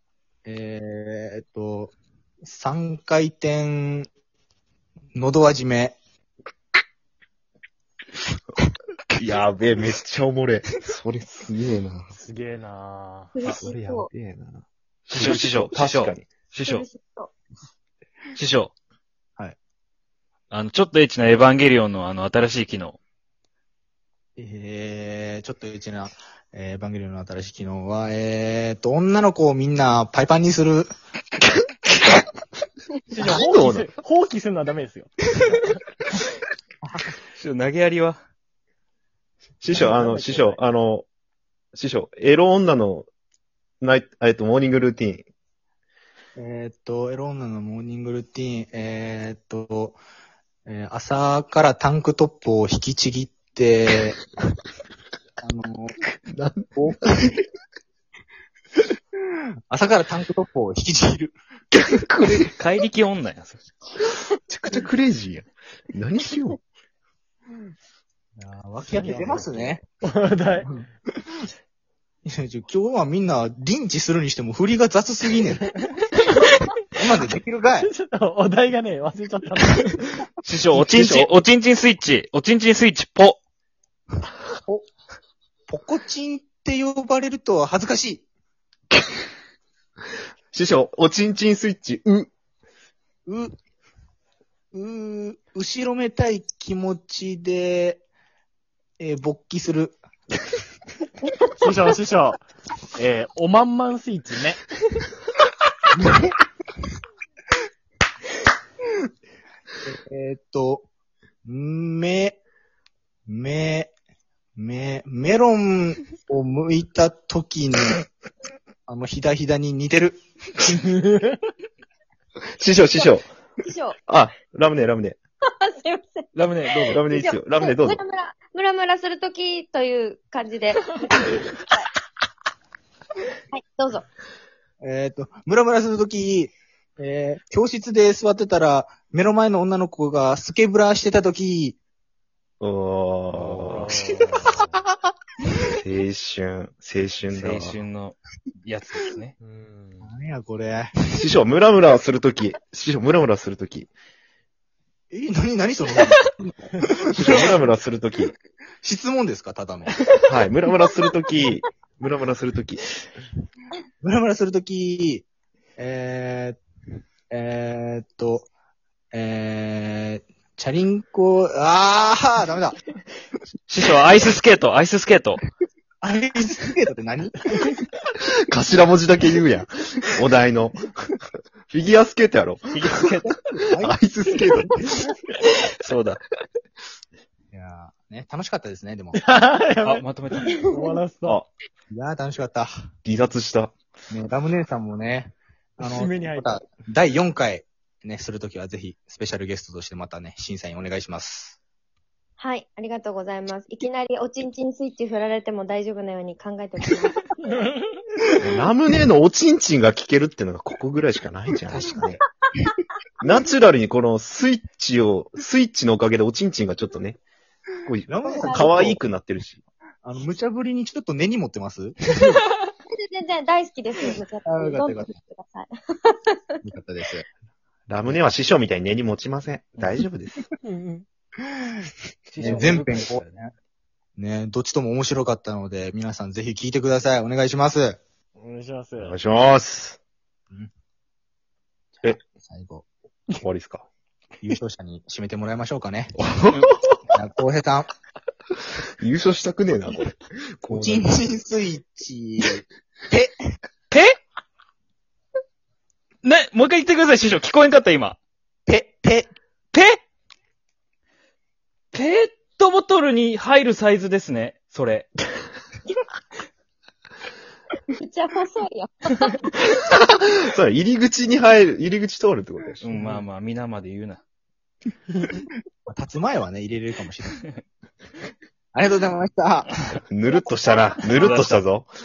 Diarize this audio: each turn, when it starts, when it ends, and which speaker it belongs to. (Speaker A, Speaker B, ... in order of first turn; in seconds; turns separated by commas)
Speaker A: 0.5-4.1, Speaker A: 5.2-6.0, Speaker B: 9.2-12.1, Speaker C: 12.2-13.6, Speaker D: 13.3-14.1, Speaker B: 13.5-16.3, Speaker E: 15.1-16.9, Speaker D: 16.6-17.3, Speaker E: 18.4-18.7, Speaker E: 20.5-23.0, Speaker A: 24.4-30.9, Speaker C: 33.1-35.7, Speaker B: 33.2-33.9, Speaker A: 36.8-37.1, Speaker E: 37.4-38.2, Speaker B: 39.6-41.1, Speaker C: 39.7-40.6, Speaker B: 41.7-43.1, Speaker B: 43.8-45.3, Speaker A: 46.4-50.0, Speaker A: 50.7-54.2, Speaker A: 55.4-56.0, Speaker B: 56.3-57.3, Speaker A: 56.8-57.4, Speaker A: 59.7-61.3, Speaker B: 61.7-62.5, Speaker E: 62.3-63.7, Speaker B: 64.5-66.6, Speaker A: 68.4-69.8, Speaker C: 68.9-70.7, Speaker A: 72.2-75.7, Speaker A: 76.9-77.9, Speaker C: 77.8-80.2, Speaker E: 80.4-83.4, Speaker B: 80.7-81.3, Speaker A: 85.7-88.3, Speaker B: 90.5-92.3, Speaker A: 93.3-93.5, Speaker A: 94.7-98.0, Speaker A: 99.0-100.0, Speaker C: 101.6-102.4, Speaker C: 103.0-104.6, Speaker A: 105.9-106.3, Speaker A: 109.8-110.9, Speaker A: 111.5-112.4, Speaker A: 113.3-113.9, Speaker A: 114.6-118.0, Speaker A: 118.9-121.0, Speaker C: 121.1-121.3, Speaker B: 122.6-123.2, Speaker D: 122.9-124.0, Speaker B: 124.1-125.2, Speaker D: 125.6-131.9, Speaker E: 126.3-127.0, Speaker B: 126.9-128.0, Speaker D: 133.5-134.1, Speaker A: 134.8-141.8, Speaker B: 142.6-143.9, Speaker C: 143.3-144.6, Speaker E: 143.7-144.7, Speaker B: 145.8-147.8, Speaker E: 147.3-149.4, Speaker C: 149.4-150.1, Speaker A: 150.0-150.9, Speaker B: 151.1-153.9, Speaker A: 155.1-157.7, Speaker B: 157.2-158.3, Speaker A: 158.8-159.9, Speaker B: 160.3-162.8, Speaker A: 164.0-165.3, Speaker A: 165.8-166.6, Speaker A: 167.3-168.5, Speaker A: 169.1-172.8, Speaker E: 173.7-175.4, Speaker A: 176.0-177.8, Speaker B: 178.2-180.9, Speaker B: 181.7-182.9, Speaker E: 182.7-183.3, Speaker A: 183.3-184.0, Speaker B: 183.8-184.8, Speaker A: 184.6-185.0, Speaker B: 185.4-186.2, Speaker A: 187.5-189.2, Speaker C: 189.1-191.4, Speaker E: 189.8-190.6, Speaker D: 190.5-190.9, Speaker A: 191.9-192.7, Speaker B: 193.1-193.7, Speaker A: 194.1-201.6, Speaker C: 195.8-196.6, Speaker D: 202.4-207.6, Speaker C: 207.5-208.0, Speaker B: 208.4-212.2, Speaker E: 211.7-212.0, Speaker B: 213.2-217.2, Speaker B: 217.8-219.6, Speaker A: 218.1-219.0, Speaker D: 218.3-218.8, Speaker A: 220.0-222.4, Speaker D: 222.9-226.5, Speaker A: 224.5-225.2, Speaker A: 226.6-227.2, Speaker B: 227.9-230.5, Speaker C: 230.6-231.1, Speaker A: 231.4-233.5, Speaker E: 232.3-233.4, Speaker A: 234.2-238.0, Speaker C: 238.4-239.2, Speaker B: 239.0-240.0, Speaker A: 242.0-242.9, Speaker B: 243.4-243.9, Speaker A: 244.4-246.2, Speaker B: 246.2-246.7, Speaker E: 246.5-246.8, Speaker A: 247.1-247.9, Speaker B: 249.0-251.1, Speaker A: 250.7-253.3, Speaker E: 253.9-254.2, Speaker E: 256.2-258.2, Speaker A: 258.7-259.3, Speaker E: 259.7-260.0, Speaker E: 261.9-265.2, Speaker D: 268.0-269.5, Speaker B: 270.5-273.0, Speaker E: 272.8-274.2, Speaker C: 275.2-275.4, Speaker A: 275.9-277.4, Speaker A: 278.7-279.8, Speaker B: 280.1-281.9, Speaker E: 281.1-281.6